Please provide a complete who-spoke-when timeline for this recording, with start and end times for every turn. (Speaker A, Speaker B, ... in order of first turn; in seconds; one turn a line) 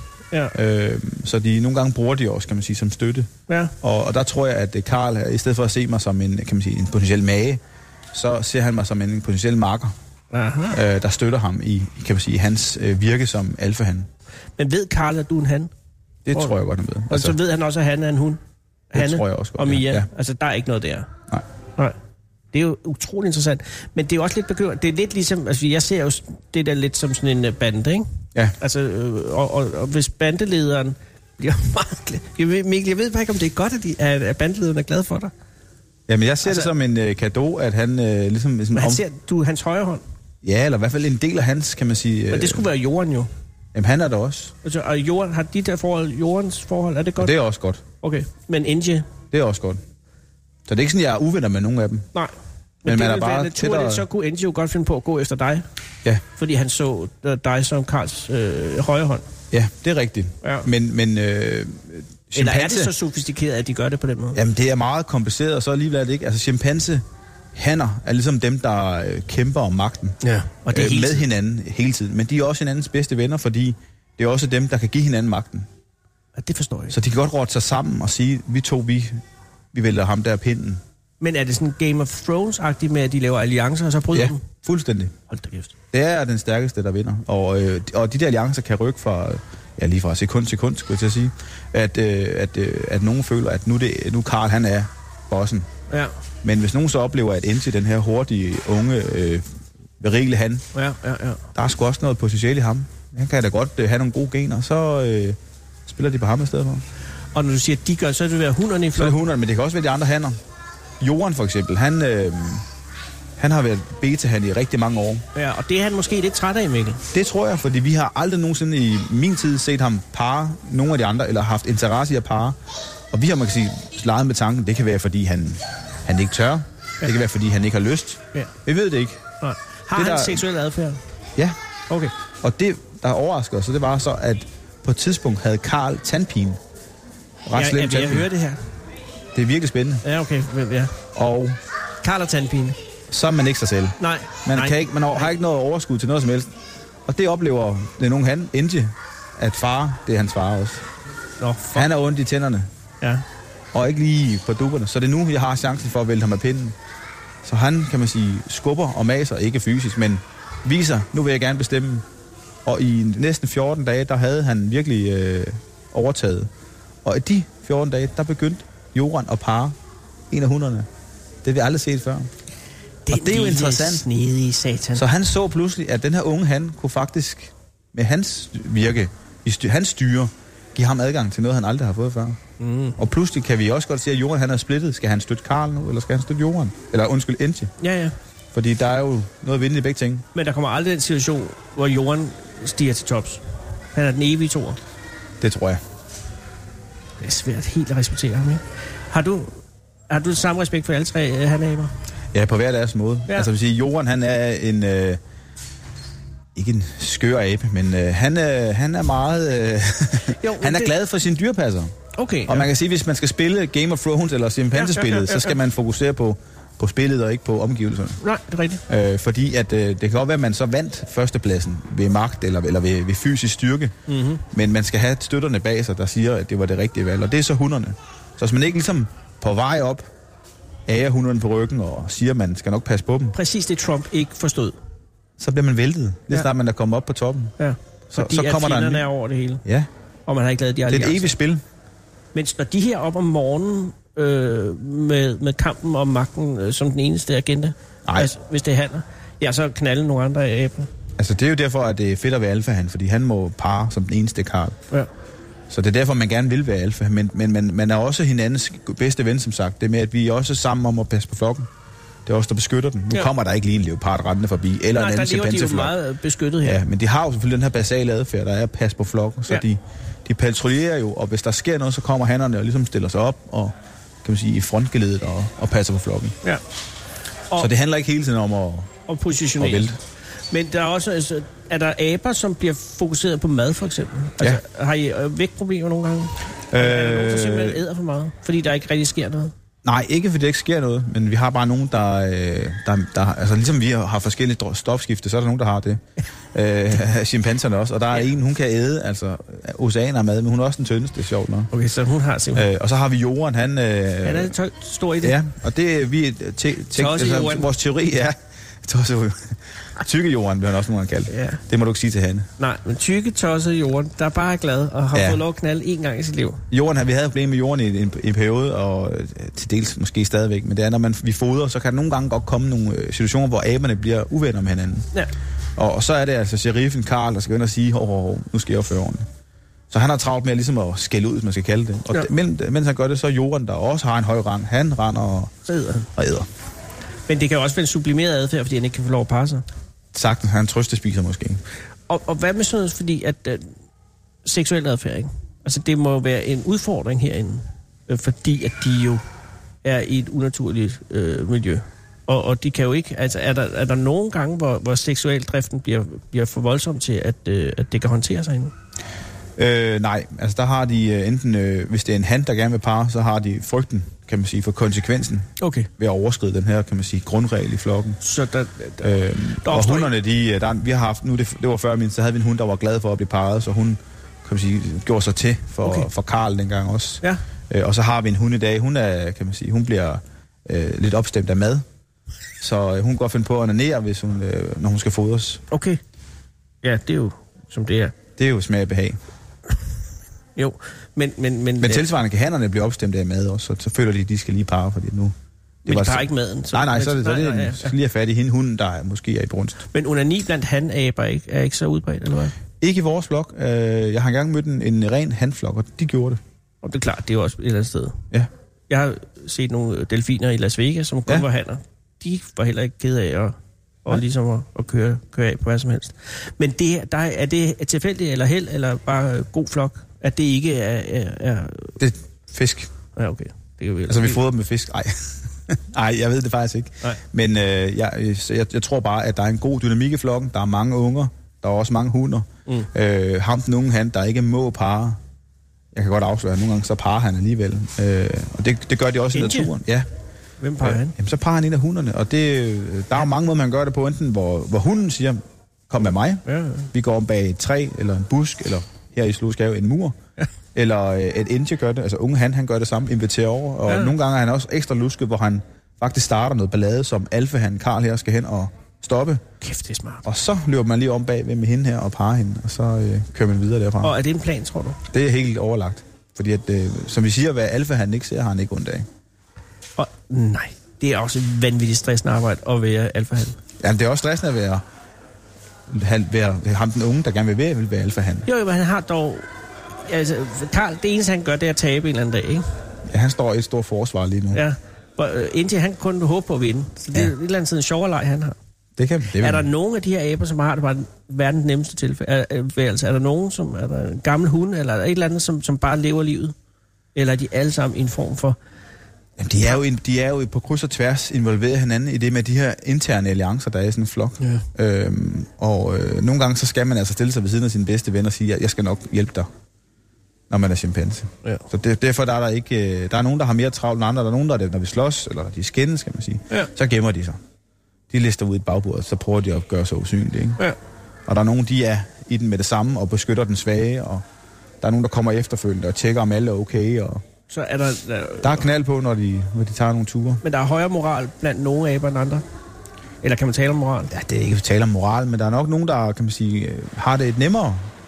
Speaker A: 0.5-3.3
Speaker B: 3.5-3.7
Speaker A: 3.8-7.6
Speaker A: 8.1-9.9
Speaker B: 10.3-10.8
Speaker A: 10.7-14.1
Speaker B: 14.6-15.7
Speaker A: 16.2-17.4
Speaker B: 17.1-18.4
Speaker B: 18.9-21.1
Speaker A: 18.9-20.1
Speaker B: 22.5-28.1
Speaker B: 28.6-35.3
Speaker A: 36.1-39.0
Speaker B: 36.4-36.7
Speaker B: 38.7-40.0
Speaker A: 40.4-42.7
Speaker B: 42.3-43.3
Speaker A: 43.7-44.5
Speaker B: 44.6-47.3
Speaker A: 47.2-47.8
Speaker B: 48.0-49.1
Speaker A: 49.3-49.8
Speaker A: 50.7-52.1
Speaker B: 52.8-55.6
Speaker A: 52.8-54.0
Speaker B: 56.4-59.2
Speaker A: 59.5-62.9
Speaker B: 60.4-60.7
Speaker B: 62.3-64.4
Speaker A: 64.3-67.0
Speaker A: 67.5-70.2
Speaker B: 70.2-71.3
Speaker A: 70.7-75.7
Speaker B: 76.4-77.0
Speaker A: 76.9-79.2
Speaker A: 79.7-80.8
Speaker B: 81.2-84.4
Speaker A: 84.1-85.1
Speaker B: 85.3-85.8
Speaker A: 85.9-95.7
Speaker A: 96.4-99.4
Speaker A: 100.0-100.6
Speaker B: 100.7-101.4
Speaker A: 101.5-106.8
Speaker B: 107.3-109.2
Speaker A: 108.9-110.4
Speaker A: 111.0-112.6
Speaker A: 113.4-115.2
Speaker B: 115.3-117.0
Speaker A: 117.1-122.6
Speaker A: 123.1-129.2
Speaker B: 129.4-131.0
Speaker A: 129.9-130.4
Speaker A: 132.4-136.6
Speaker A: 137.4-138.3
Speaker B: 137.5-138.6
Speaker A: 139.3-140.0
Speaker B: 140.0-140.9
Speaker A: 141.1-141.6
Speaker B: 142.0-142.8
Speaker A: 143.1-146.5
Speaker B: 144.0-145.3
Speaker A: 147.1-150.8
Speaker B: 151.4-151.9
Speaker A: 151.7-152.7
Speaker A: 153.7-156.8
Speaker A: 157.4-162.1
Speaker A: 162.6-166.5
Speaker A: 167.0-169.8
Speaker A: 170.3-170.9
Speaker A: 171.4-172.3
Speaker B: 173.1-175.0
Speaker A: 173.1-174.1
Speaker A: 174.9-182.4
Speaker B: 182.6-183.0
Speaker A: 183.0-187.7
Speaker B: 187.8-188.1
Speaker A: 188.5-190.2
Speaker B: 190.3-193.4
Speaker B: 193.9-194.8
Speaker A: 195.4-195.8
Speaker B: 197.2-201.9
Speaker A: 202.3-205.2
Speaker A: 206.5-211.9
Speaker B: 210.3-210.9
Speaker B: 212.1-212.7
Speaker A: 212.4-218.2
Speaker B: 214.8-215.6
Speaker B: 218.2-218.8
Speaker A: 218.9-223.9
Speaker B: 224.1-224.4
Speaker A: 224.5-230.1
Speaker A: 230.9-233.4
Speaker B: 233.3-234.8
Speaker A: 235.4-237.5
Speaker B: 237.6-239.6
Speaker A: 238.1-239.1
Speaker B: 240.3-241.4
Speaker A: 240.9-241.6
Speaker B: 242.3-250.9
Speaker A: 248.1-248.3
Speaker A: 251.2-254.8
Speaker A: 255.7-261.7
Speaker A: 262.2-266.0
Speaker B: 264.9-266.8
Speaker A: 266.6-276.4
Speaker A: 277.6-278.9
Speaker B: 279.1-279.9
Speaker A: 279.5-280.0
Speaker B: 280.5-289.5
Speaker A: 286.7-287.8
Speaker A: 289.8-301.7
Speaker B: 301.7-302.7
Speaker A: 302.5-304.6
Speaker B: 304.2-305.4
Speaker A: 305.2-312.5
Speaker B: 306.9-307.7
Speaker B: 311.3-311.6
Speaker B: 312.6-316.6
Speaker A: 315.1-315.4
Speaker A: 316.7-325.1
Speaker A: 325.8-329.3
Speaker A: 329.9-335.5
Speaker B: 335.7-336.1
Speaker A: 336.1-336.5
Speaker B: 337.3-339.6
Speaker A: 340.1-341.6
Speaker B: 342.1-343.7
Speaker B: 344.4-349.2
Speaker B: 349.8-358.7
Speaker A: 359.6-368.2
Speaker B: 365.6-365.9
Speaker B: 368.2-370.1
Speaker A: 369.0-381.8
Speaker B: 375.8-376.1
Speaker A: 382.6-385.6
Speaker B: 385.7-386.0
Speaker B: 386.8-388.1
Speaker A: 388.4-389.2
Speaker B: 390.6-392.1
Speaker A: 391.8-395.3
Speaker B: 395.9-397.9
Speaker A: 395.9-399.8
Speaker B: 399.9-402.6
Speaker A: 402.8-406.4
Speaker B: 406.8-408.2
Speaker B: 408.9-422.0
Speaker A: 422.0-422.9
Speaker B: 423.1-424.4
Speaker A: 424.1-435.2
Speaker A: 435.9-440.1
Speaker B: 439.3-439.7
Speaker B: 440.6-441.1
Speaker A: 440.8-450.1
Speaker B: 446.4-446.9
Speaker A: 450.8-459.4
Speaker B: 453.9-454.1
Speaker B: 459.6-460.2
Speaker A: 460.2-464.1
Speaker B: 464.0-465.0
Speaker A: 465.1-469.1
Speaker B: 470.0-473.6
Speaker A: 473.8-474.8
Speaker A: 475.9-478.5
Speaker B: 478.5-479.5
Speaker B: 480.0-482.6
Speaker A: 483.1-484.6
Speaker B: 484.5-488.6
Speaker A: 489.0-489.7
Speaker B: 489.4-496.5
Speaker B: 497.1-498.6
Speaker A: 499.4-509.5
Speaker B: 504.4-504.7
Speaker A: 510.5-517.4
Speaker A: 518.1-520.6
Speaker A: 521.3-524.2
Speaker A: 524.8-527.2
Speaker B: 527.5-528.6
Speaker A: 528.4-530.4
Speaker B: 530.4-532.4
Speaker B: 533.2-534.1
Speaker A: 534.1-537.9